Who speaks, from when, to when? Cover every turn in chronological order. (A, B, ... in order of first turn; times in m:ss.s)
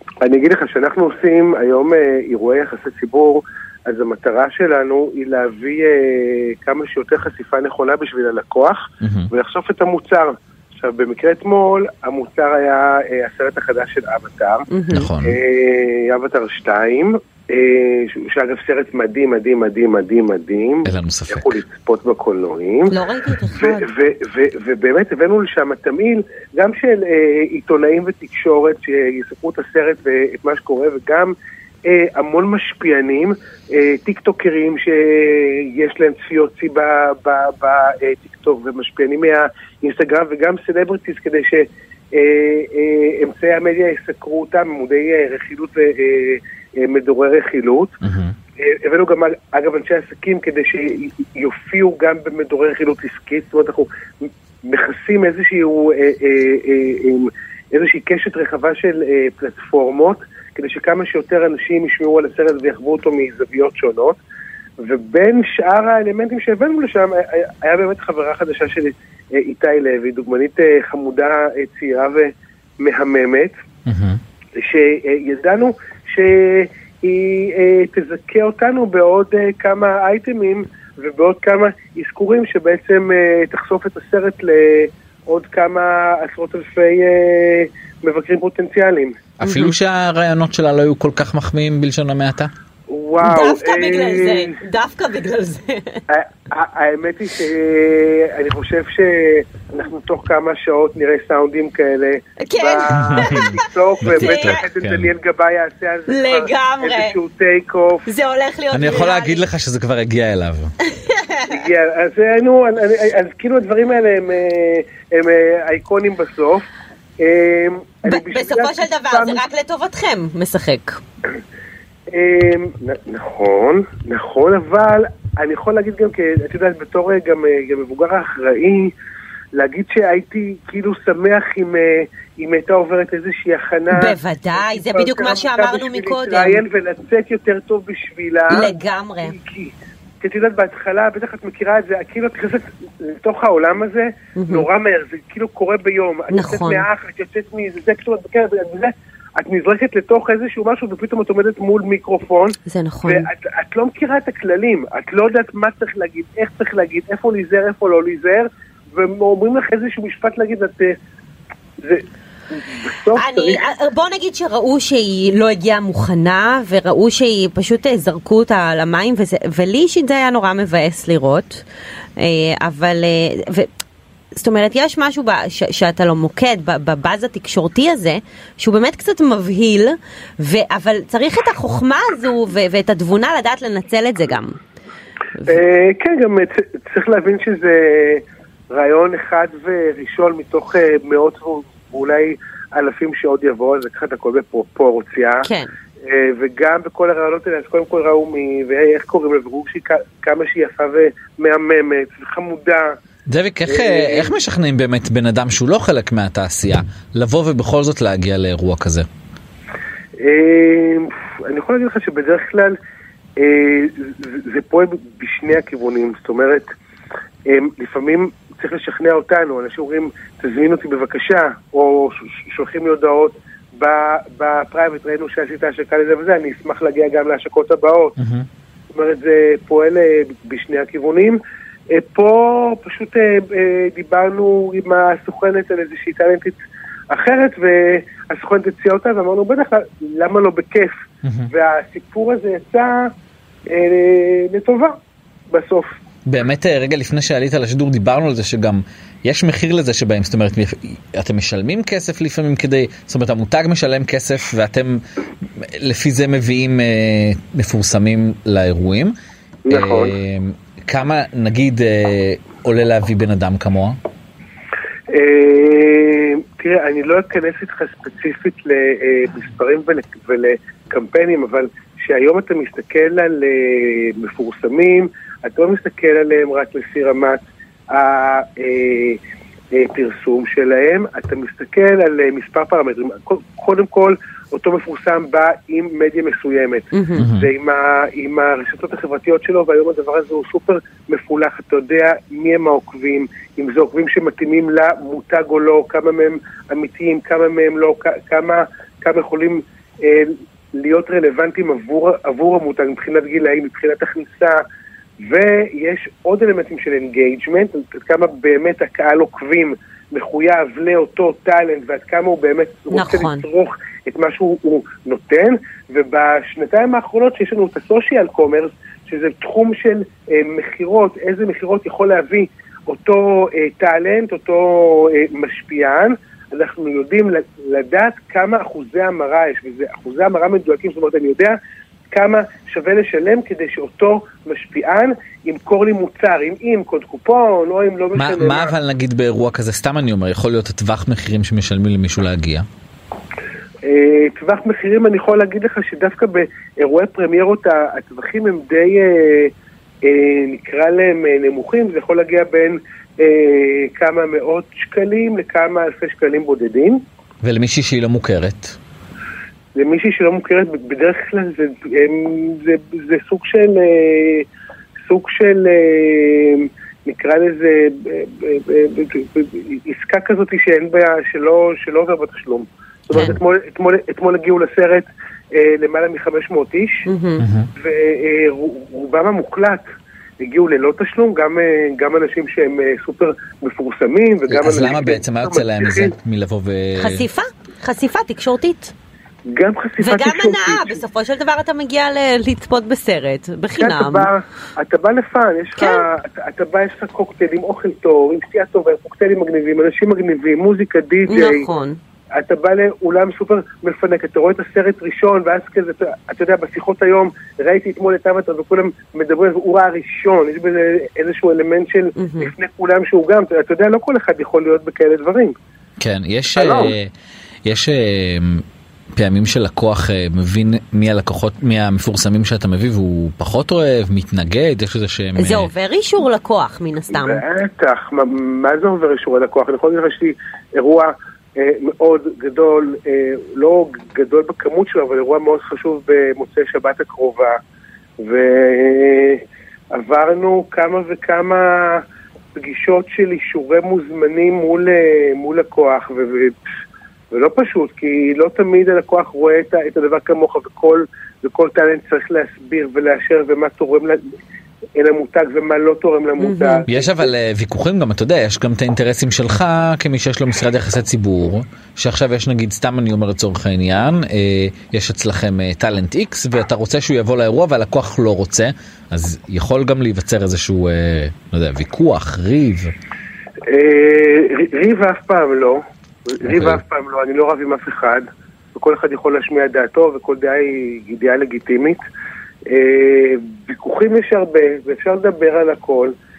0:00.2-0:14.7 A
0:09.0-0:09.3 B
0:14.7-0:15.1 C
0:14.9-0:15.4 B
0:15.2-0:22.9 A
0:20.8-0:21.6 B
0:22.9-0:23.9 C
0:23.6-0:48.0 A
0:48.0-0:48.4 B
0:48.6-1:04.2 A
1:04.8-1:13.6 A
1:13.9-1:14.2 B
1:14.6-1:29.2 A
1:29.4-1:32.5 B
1:29.4-1:29.7 C
1:32.9-1:34.6 A
1:33.2-1:36.0 C
1:36.1-1:48.0 A
1:42.4-1:43.6 C
1:43.0-1:45.1 B
1:44.1-1:44.6 C
1:46.1-1:47.1 C
1:48.1-1:49.4 C
1:48.7-1:50.7 B
1:50.9-1:51.6 C
1:51.5-1:56.7 A
1:57.2-1:59.4 A
1:58.1-2:01.0 C
2:02.1-2:08.9 A
2:09.5-2:41.0 A
2:13.9-2:16.6 C
2:18.5-2:19.4 C
2:24.4-2:24.7 C
2:26.3-2:26.9 C
2:32.7-2:33.3 C
2:41.8-2:43.6 A
2:43.2-2:51.6 C
2:52.2-2:53.7 C
2:54.4-3:04.6 C
3:05.5-3:15.5 A
3:15.4-3:15.7 C
3:16.0-3:23.0 A
3:23.3-3:29.1 B
3:23.7-3:24.3 A
3:30.2-3:32.8 A
3:33.4-3:36.7 A
3:37.5-3:48.2 A
3:48.2-3:48.5 B
3:48.9-3:51.4 A
3:51.9-3:56.6 A
3:57.1-4:01.0 A
4:01.2-4:01.5 B
4:01.5-4:03.1 A
4:03.7-4:05.0 A
4:05.5-4:06.0 A
4:06.3-4:15.0 B
4:15.6-4:19.1 B
4:19.7-4:20.2 A
4:19.7-4:24.0 B
4:25.1-4:39.2 A
4:39.7-5:04.6 A
4:46.9-4:47.2 C
4:47.2-4:47.5 B
5:05.2-5:31.6 A
5:12.9-5:13.4 C
5:32.1-5:38.7 A
5:38.2-5:42.7 B
5:43.8-5:49.5 A
5:50.0-5:57.0 A
5:57.4-5:58.8 B
5:59.8-6:04.5 A
6:05.1-6:17.1 A
6:13.1-6:13.4 B
6:17.1-6:17.4 C
6:17.4-6:17.7 B
6:17.8-6:19.8 A
6:20.4-6:26.1 A
6:24.5-6:27.2 B
6:27.0-6:28.9 C
6:29.5-6:31.0 A
6:30.0-6:34.3 C
6:33.8-6:41.7 A
6:35.8-6:36.0 C
6:41.3-6:42.0 C
6:42.3-6:55.6 A
6:52.2-6:52.5 C
6:56.0-6:57.1 B
6:56.6-6:56.9 A
6:57.6-6:58.6 B
6:59.2-7:05.7 B
7:05.4-7:07.4 C
7:07.1-7:17.6 A
7:18.2-7:26.6 A
7:27.3-7:34.2 A
7:35.0-7:37.2 A
7:36.4-7:36.8 C
7:36.9-7:52.9 B
7:53.7-8:02.0 A
7:56.4-7:56.8 B
8:02.7-8:06.1 A